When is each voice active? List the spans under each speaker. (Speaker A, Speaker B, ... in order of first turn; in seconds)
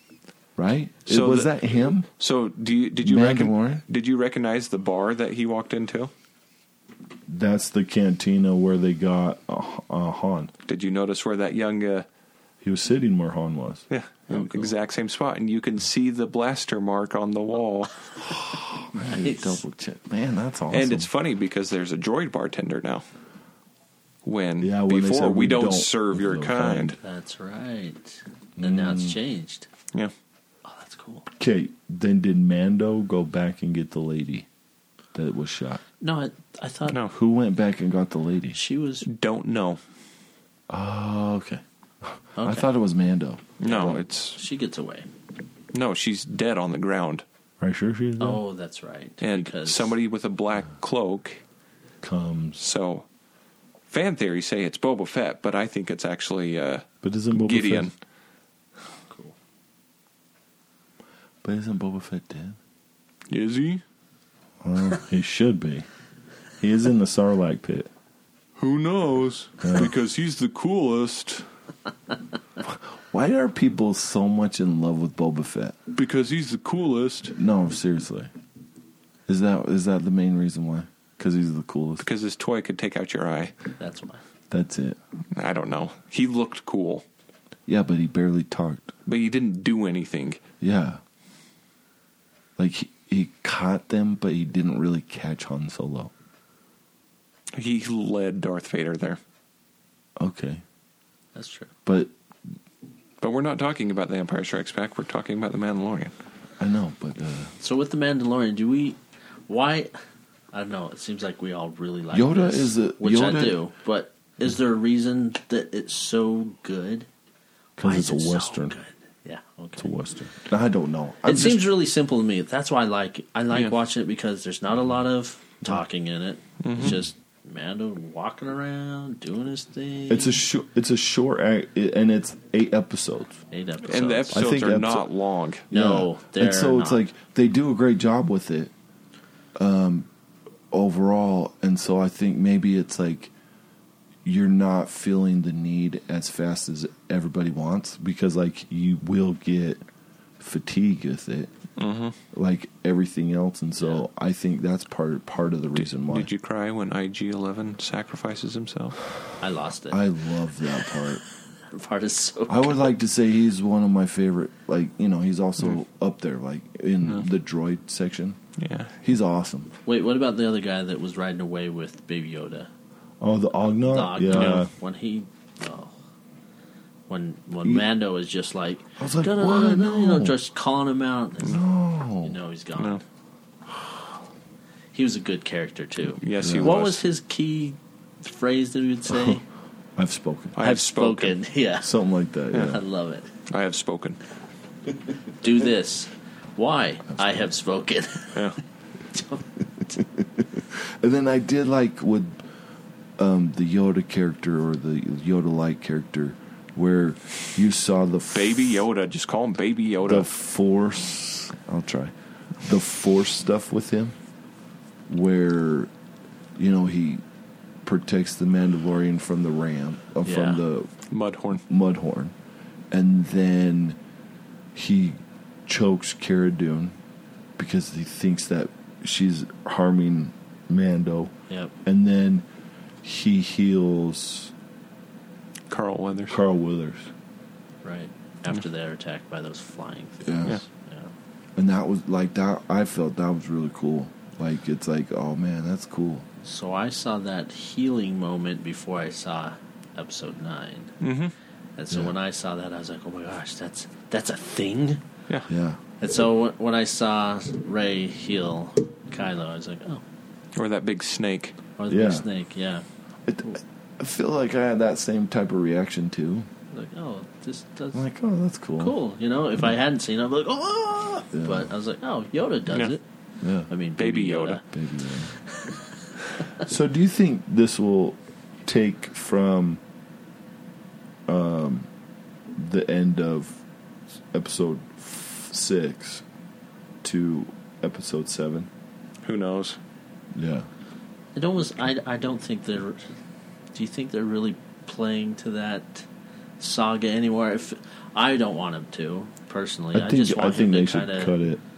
Speaker A: 0.6-2.1, 3.0-3.8, 7.3-10.5, 12.6-13.8, 18.5-21.1, 24.6-27.0, 28.6-29.2, 31.3-34.5, 35.1-35.8, 37.1-38.6, 40.7-44.0, 47.6-48.4, 52.0-52.6, 57.0-57.9, 61.4-62.6, 64.6-65.9, 66.6-67.9, 69.6-69.9, 72.6-75.8, 77.3-78.3, 79.3-82.0, 84.5-85.0, 87.7-88.9, 90.6-91.0, 92.6-96.1, 100.2-100.6, 101.9-102.1, 106.6-107.5, 112.1-113.6, 117.8-118.7, 119.8-121.7, 130.1-133.4, 134.3-135.1, 135.7-138.7, 139.6-140.1, 140.7-143.3, 144.2-149.8, 150.4-151.5, 152.3-156.3, 159.9-161.2, 162.5-168.4, 169.0-169.7, 173.2-174.7, 179.0-180.4, 181.4-182.4, 186.4-186.8, 189.1-189.4, 189.9-190.5, 191.8-192.8, 199.8-202.4, 203.2-208.8, 210.1-214.1, 215.1-215.9, 216.6-217.2, 217.8-220.9, 221.7-222.3, 222.9-224.0, 224.7-226.9, 227.6-231.3, 231.8-232.4, 233.0-234.5, 236.3-237.1, 240.2-240.6, 241.6-246.2, 255.5-255.8, 261.9-262.2, 263.2-266.5, 267.9-268.9, 271.3-271.7, 273.4-273.7, 274.7-275.4, 276.6-279.8, 281.3-281.9, 282.5-283.6, 284.3-286.2, 287.0-288.7, 290.3-290.7, 299.9-301.6
Speaker B: 1.1-1.6, 2.2-6.1, 10.7-12.1, 13.9-18.1, 20.7-23.0, 24.2-27.0, 36.9-37.1, 39.0-39.8, 43.6-44.4, 45.7-47.2, 49.2-51.4, 52.6-53.1, 53.9-57.9, 63.3-63.8, 68.6-71.5, 75.9-77.3, 82.0-83.6, 85.3-87.0, 89.0-90.4, 97.5-99.2, 103.2-106.1, 126.6-127.0, 133.9-135.7, 151.8-152.2, 155.8-159.0, 168.6-168.9, 174.3-174.6, 186.2-187.0, 190.6-191.4, 192.5-192.8, 193.5-194.2, 198.3-198.6, 208.3-210.3, 221.1-221.6, 235.7-236.4, 251.0-251.3, 260.5-261.6, 272.7-272.9, 274.0-274.6, 289.2-289.8
Speaker C: 14.3-14.7, 19.1-19.6, 27.0-29.7, 30.6-31.2, 36.0-37.0, 38.5-39.0, 42.4-42.6, 44.4-45.1, 48.2-49.9, 59.1-59.4, 83.8-84.2, 101.3-101.7, 107.6-109.9, 110.5-117.1, 117.8-119.9, 121.2-130.4, 133.5-134.4, 135.7-137.0, 159.4-160.0, 161.6-162.8, 169.9-172.7, 173.8-176.0, 177.1-181.6, 182.2-183.0, 184.9-189.4, 190.6-191.9, 192.5-193.3, 195.4-198.6, 199.1-199.4, 220.2-220.6, 231.5-231.7, 237.8-241.1, 246.4-250.9, 251.8-255.0, 256.0-260.0, 261.8-262.9, 266.7-268.0, 268.8-273.0, 273.7-276.6, 291.4-293.0, 293.7-296.1, 296.6-301.4